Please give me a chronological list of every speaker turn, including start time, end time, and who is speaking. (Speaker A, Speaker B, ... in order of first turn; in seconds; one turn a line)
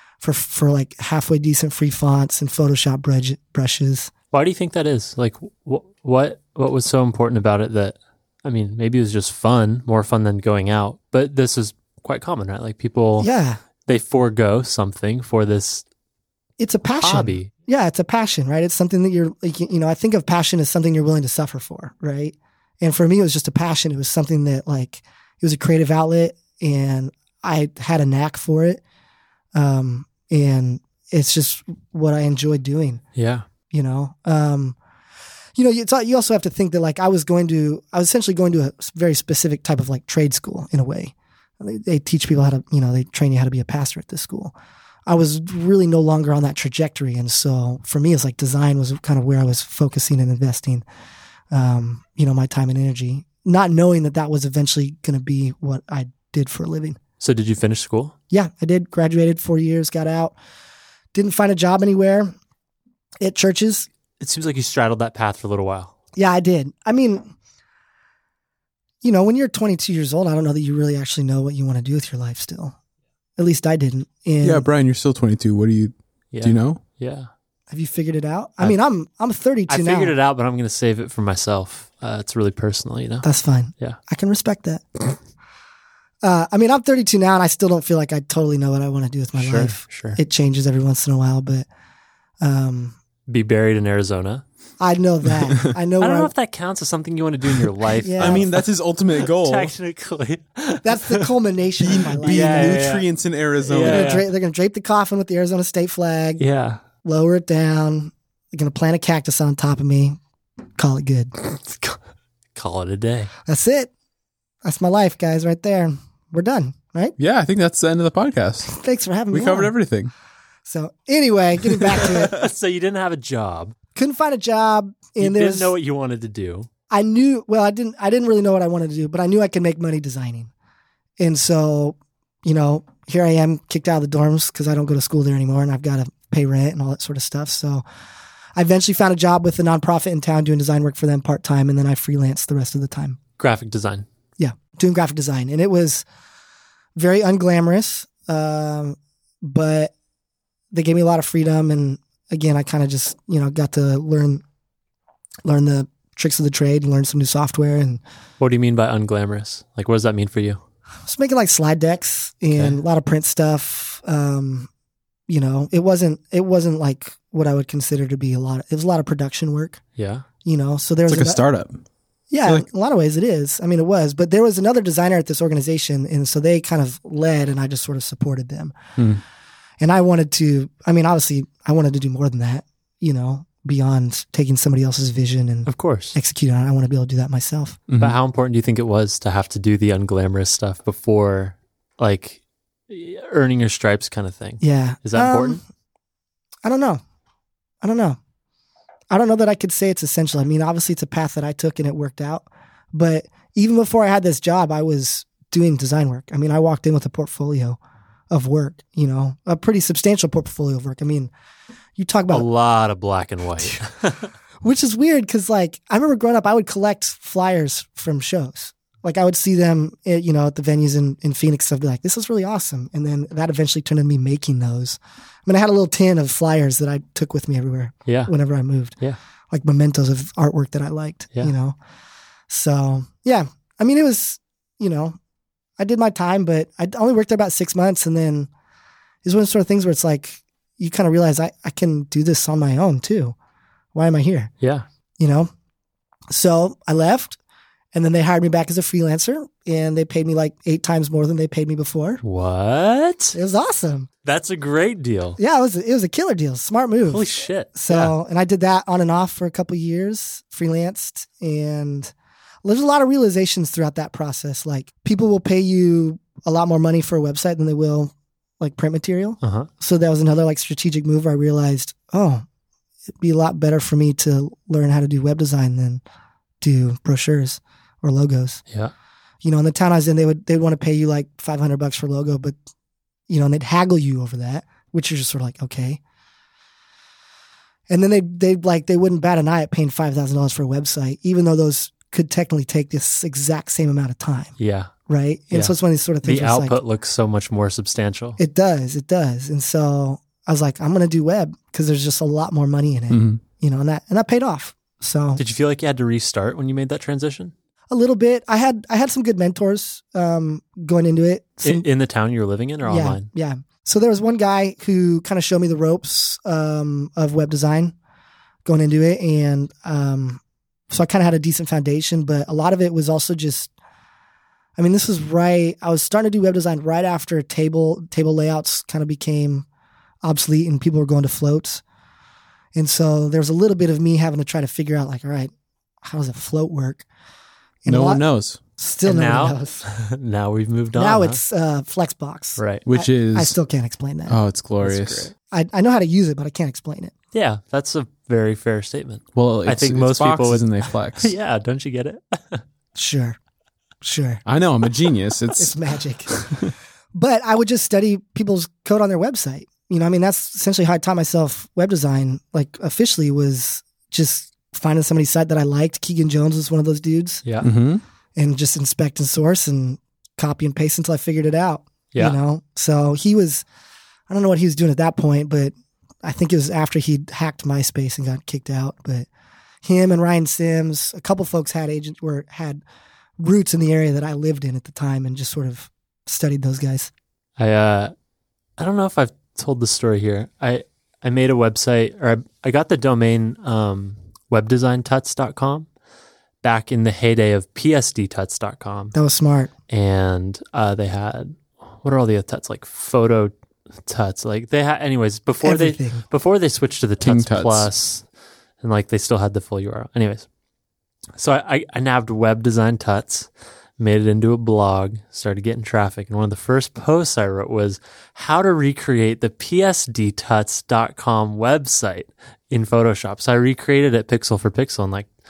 Speaker A: 0.2-4.1
Speaker B: 4.3-13.3
Speaker A: 13.2-13.6
Speaker B: 13.9-15.8
Speaker A: 16.6-28.8
Speaker B: 17.0-17.5
Speaker A: 29.5-33.0
Speaker B: 33.1-33.4
Speaker A: 33.7-34.8
Speaker A: 35.5-44.5
Speaker A: 45.0-50.9
Speaker A: 51.5-57.0
Speaker B: 57.2-58.1
Speaker A: 58.3-60.4
Speaker A: 61.1-62.3
Speaker A: 63.2-63.9
Speaker B: 64.2-65.9
Speaker A: 66.2-67.3
Speaker A: 69.0-72.8
Speaker A: 73.4-74.7
Speaker C: 74.4-76.8
Speaker B: 76.3-77.3
Speaker A: 77.7-80.1
Speaker B: 79.7-83.3
Speaker A: 83.2-84.8
Speaker A: 86.2-91.7
Speaker B: 89.4-90.2
Speaker A: 92.4-93.0
Speaker B: 93.3-94.4
Speaker A: 94.8-96.3
Speaker B: 96.0-98.6
Speaker A: 98.0-98.5
Speaker C: 98.2-99.7
Speaker B: 99.2-101.3
Speaker A: 100.8-102.8
Speaker C: 101.8-104.2
Speaker B: 102.2-103.0
Speaker B: 103.6-104.2
Speaker A: 103.8-106.4
Speaker B: 106.4-106.8
Speaker A: 107.0-110.2
Speaker A: 110.8-111.3
Speaker B: 111.4-112.0
Speaker B: 112.5-113.3
Speaker A: 113.5-113.9
Speaker A: 114.6-117.2
Speaker C: 117.2-118.7
Speaker A: 118.7-119.7
Speaker C: 119.3-120.1
Speaker A: 120.7-122.3
Speaker B: 122.0-123.8
Speaker A: 123.9-125.7
Speaker B: 125.2-126.7
Speaker A: 126.9-130.5
Speaker A: 131.2-137.8
Speaker A: 138.6-143.2
Speaker B: 143.4-144.1
Speaker A: 144.4-146.0
Speaker A: 147.0-149.9
Speaker A: 150.7-154.4
Speaker A: 155.4-158.0
Speaker B: 158.4-160.6
Speaker A: 161.1-164.7
Speaker B: 162.5-162.8
Speaker A: 165.3-169.8
Speaker B: 170.0-170.2
Speaker A: 170.4-171.4
Speaker C: 171.1-171.8
Speaker A: 172.3-178.8
Speaker C: 179.0-179.2
Speaker A: 179.8-187.8
Speaker B: 185.7-186.2
Speaker C: 187.9-188.1
Speaker B: 188.0-195.6
Speaker A: 194.6-195.6
Speaker A: 196.6-197.0
Speaker A: 197.8-198.2
Speaker A: 199.1-207.8
Speaker A: 208.3-211.3
Speaker A: 212.0-212.5
Speaker B: 212.3-214.2
Speaker A: 214.6-229.0
Speaker B: 228.1-228.3
Speaker A: 229.5-231.8
Speaker A: 232.5-235.2
Speaker A: 235.8-238.5
Speaker A: 239.2-243.3
Speaker A: 243.9-244.5
Speaker A: 245.2-245.5
Speaker A: 246.3-247.4
Speaker A: 247.9-252.2
Speaker B: 252.2-253.4
Speaker A: 253.3-254.1
Speaker B: 254.2-255.4
Speaker A: 255.4-262.1
Speaker B: 257.1-258.1
Speaker A: 262.6-272.4
Speaker B: 269.4-269.7
Speaker A: 273.2-276.0
Speaker A: 276.6-278.6
Speaker A: 279.4-282.6
Speaker A: 283.3-286.0
Speaker A: 287.9-294.5
Speaker B: 294.6-294.9
Speaker A: 295.1-296.8
Speaker B: 295.5-298.4
Speaker A: 298.4-305.4
Speaker C: 303.1-303.4
Speaker B: 305.4-307.5
Speaker A: 307.9-311.9
Speaker B: 311.6-313.3
Speaker A: 312.9-317.9
Speaker A: 318.6-323.7
Speaker A: 324.8-329.6
Speaker A: 330.2-331.8
Speaker A: 332.7-337.1
Speaker A: 337.8-338.2
Speaker C: 337.9-338.6
Speaker A: 338.8-339.9
Speaker B: 339.0-341.4
Speaker A: 340.9-344.4
Speaker B: 342.6-342.8
Speaker C: 342.9-343.6
Speaker C: 344.3-345.3
Speaker B: 344.8-345.3
Speaker A: 345.5-347.1
Speaker B: 347.3-352.6
Speaker C: 349.4-351.3
Speaker A: 352.9-353.4
Speaker A: 354.0-354.4
Speaker C: 354.4-355.8
Speaker A: 355.6-356.3
Speaker C: 356.3-356.7
Speaker A: 357.1-367.4
Speaker C: 367.6-368.0
Speaker A: 368.4-373.6
Speaker A: 374.3-379.3
Speaker A: 379.8-382.8
Speaker A: 383.4-387.1
Speaker B: 387.6-388.1
Speaker B: 388.8-395.9
Speaker B: 396.6-399.1
Speaker A: 399.1-399.7
Speaker B: 399.9-403.5
Speaker B: 404.1-408.2
Speaker A: 405.6-406.2
Speaker C: 407.2-407.9
Speaker B: 408.8-410.5
Speaker B: 411.4-425.3